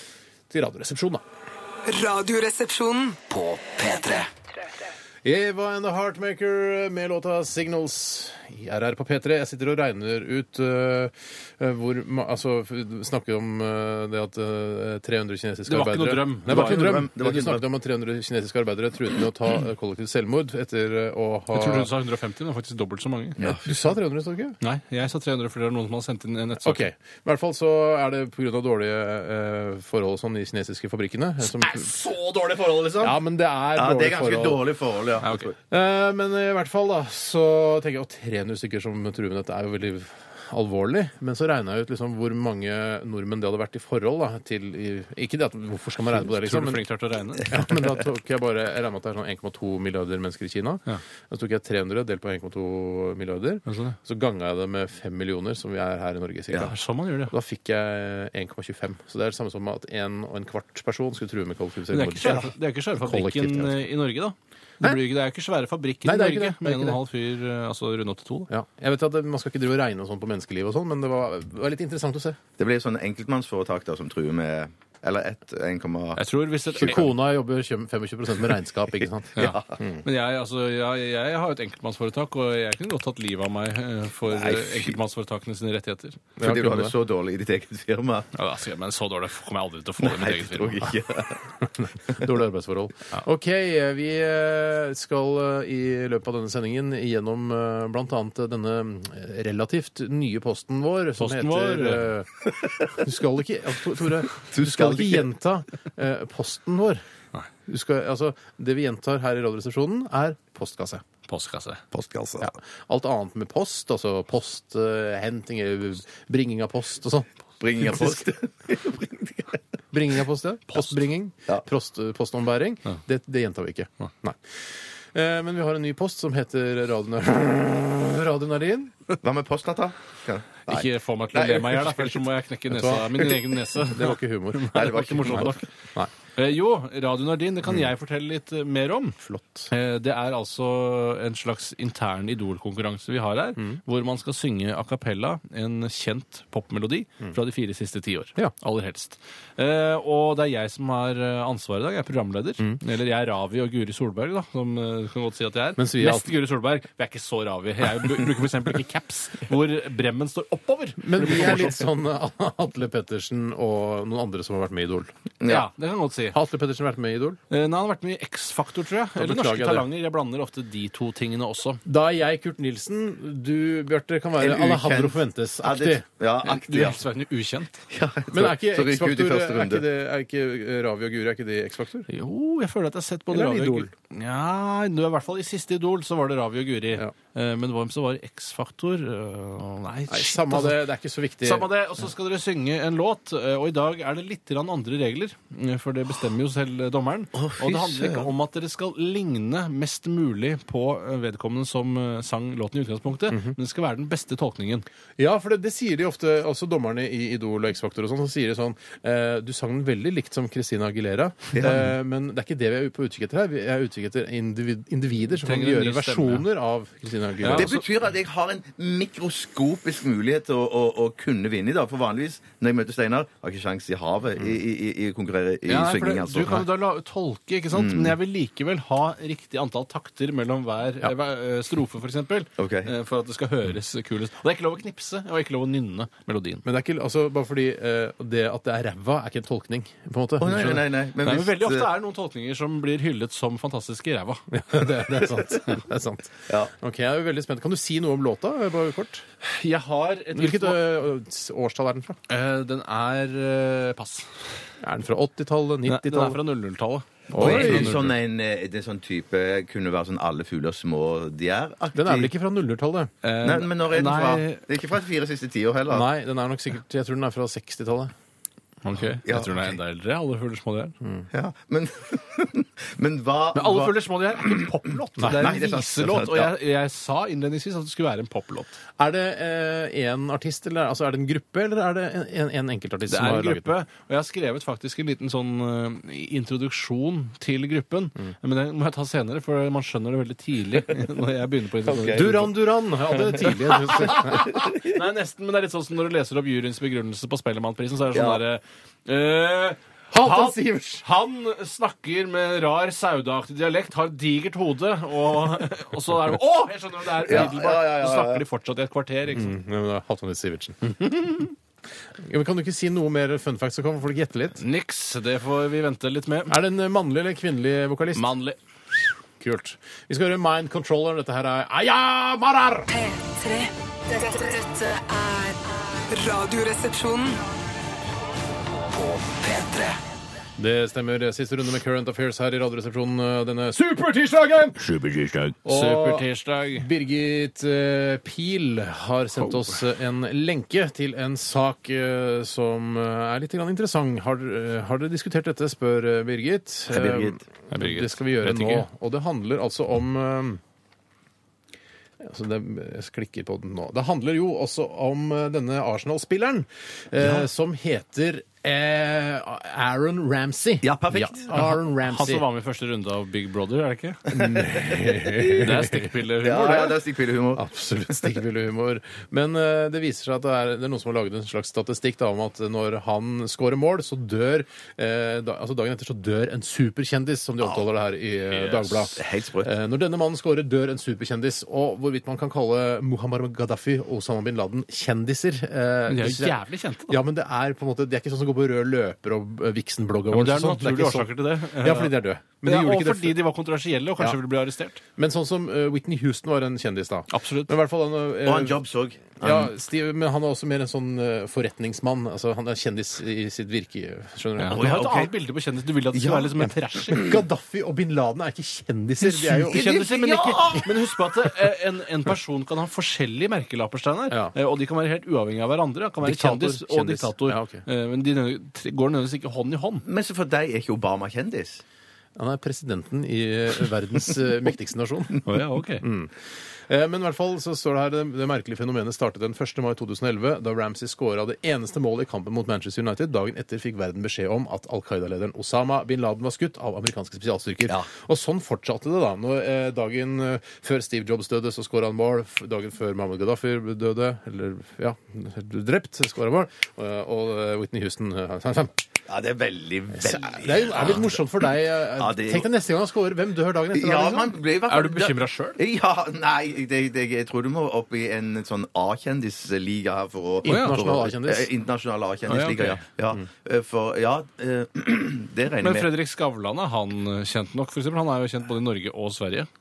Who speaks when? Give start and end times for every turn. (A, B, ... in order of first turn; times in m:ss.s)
0:00.5-0:01.2 A
0:01.9-0:03.2 B
0:03.3-0:04.3 C
0:05.2-0:21.9 A
0:15.7-0:17.1 D
0:16.5-0:17.6 E
0:21.5-0:23.4 D
0:23.4-0:23.8 E
0:23.4-0:24.6 A
0:24.6-0:26.9 D
0:26.6-0:31.9 A
0:31.4-0:33.2 D
0:33.0-0:34.6 A
0:33.8-0:35.6 E
0:35.2-0:35.5 D
0:35.7-0:46.8 A
0:46.1-0:47.6 D
0:47.4-0:56.7 A
0:53.7-0:54.0 D
0:56.6-0:57.3 D
0:57.3-1:03.8 A
1:01.9-1:08.5 D
1:06.0-1:07.0 A
1:08.5-1:12.4 A
1:12.6-1:17.0 E
1:16.2-1:17.1 D
1:16.8-1:20.0 A
1:19.4-1:19.7 E
1:19.4-1:26.2 D
1:24.3-1:25.0 E
1:26.4-1:26.9 A
1:26.4-1:28.3 E
1:28.3-1:30.9 D
1:30.0-1:31.4 E
1:31.6-1:47.0 A
1:41.2-1:42.1 D
1:44.3-1:45.3 E
1:47.7-1:51.0 A
1:51.3-1:51.8 D
1:51.9-1:52.5 E
1:52.4-1:58.3 A
1:57.6-1:59.6 E
1:59.9-2:08.9 A
2:09.2-2:12.2 E
2:10.7-2:15.7 D
2:12.7-2:16.1 A
2:14.7-2:15.6 E
2:16.4-2:19.2 D
2:19.2-2:19.7 A
2:19.7-2:41.8 D
2:35.8-2:36.3 A
2:41.0-2:45.1 A
2:45.4-2:45.7 E
2:45.4-2:46.4 D
2:46.3-2:47.4 A
2:47.5-2:51.8 D
2:49.2-2:49.9 A
2:51.8-2:56.0 A
2:54.4-2:57.0 E
2:56.4-2:57.8 D
2:57.9-2:59.8 E
2:58.3-3:02.1 A
3:02.1-3:10.8 D
3:03.3-3:03.9 A
3:10.1-3:11.7 A
3:11.4-3:24.9 D
3:17.4-3:18.3 E
3:23.3-3:23.6 A
3:25.2-3:37.7 A
3:31.5-3:31.9 E
3:35.4-3:36.4 D
3:37.4-3:37.8 D
3:37.5-3:46.7 E
3:45.7-3:56.6 D
3:47.7-3:48.2 E
3:52.6-3:52.9 E
3:56.6-4:00.8 A
4:00.4-4:01.9 E
4:01.2-4:04.4 D
4:04.5-4:09.3 A
4:09.4-4:10.8 D
4:10.4-4:12.2 A
4:12.3-4:14.4 D
4:14.8-4:16.4 A
4:15.9-4:18.1 D
4:17.3-4:18.0 A
4:17.4-4:22.3 E
4:21.9-4:23.1 A
4:23.2-4:24.6 D
4:23.4-4:26.1 E
4:25.9-4:28.1 A
4:28.8-4:31.0 D
4:29.3-4:29.7 E
4:31.3-4:34.7 E
4:33.6-4:38.8 D
4:35.2-4:35.6 A
4:35.3-4:36.5 E
4:39.0-4:43.7 A
4:43.1-4:52.5 D
4:51.8-4:52.5 E
4:52.1-4:54.5 A
4:53.4-5:09.5 D
4:54.2-4:55.0 E
4:58.1-4:58.4 E
5:00.1-5:01.0 A
5:07.2-5:08.4 E
5:09.3-5:11.5 A
5:12.2-5:14.6 A
5:14.6-5:16.5 D
5:16.5-5:18.2 A
5:18.1-5:18.6 D
5:19.4-5:22.9 A
5:22.9-5:27.4 B
5:28.6-5:30.0 C
5:30.6-5:34.8 A
5:34.8-5:35.6 C
5:35.6-5:50.6 A
5:35.7-5:36.9 D
5:46.9-5:47.4 E
5:47.7-5:48.9 D
5:52.2-6:02.4 A
6:00.8-6:01.5 E
6:01.5-6:04.3 D
6:04.3-6:06.1 A
6:04.4-6:05.4 E
6:05.5-6:07.0 D
6:06.4-6:07.7 E
6:07.6-6:33.4 A
6:18.5-6:18.9 D
6:19.1-6:19.7 E
6:26.1-6:27.2 D
6:30.3-6:35.0 D
6:35.2-6:38.8 A
6:37.3-6:37.7 D
6:38.4-6:39.7 E
6:39.4-6:44.9 A
6:44.6-6:47.2 D
6:44.7-6:45.3 E
6:46.1-6:46.5 E
6:47.1-6:49.9 A
6:49.2-7:00.0 D
6:49.7-6:50.9 E
6:56.2-6:57.8 A
7:00.0-7:01.8 E
7:02.4-7:05.4 A
7:05.4-7:06.0 D
7:06.0-7:29.0 A
7:29.3-7:31.4 E
7:30.1-7:34.6 A
7:32.2-7:32.7 E
7:33.9-7:46.1 E
7:34.9-7:35.8 D
7:40.6-7:41.7 A
7:40.7-7:41.0 D
7:42.5-7:43.0 D
7:45.8-7:49.7 D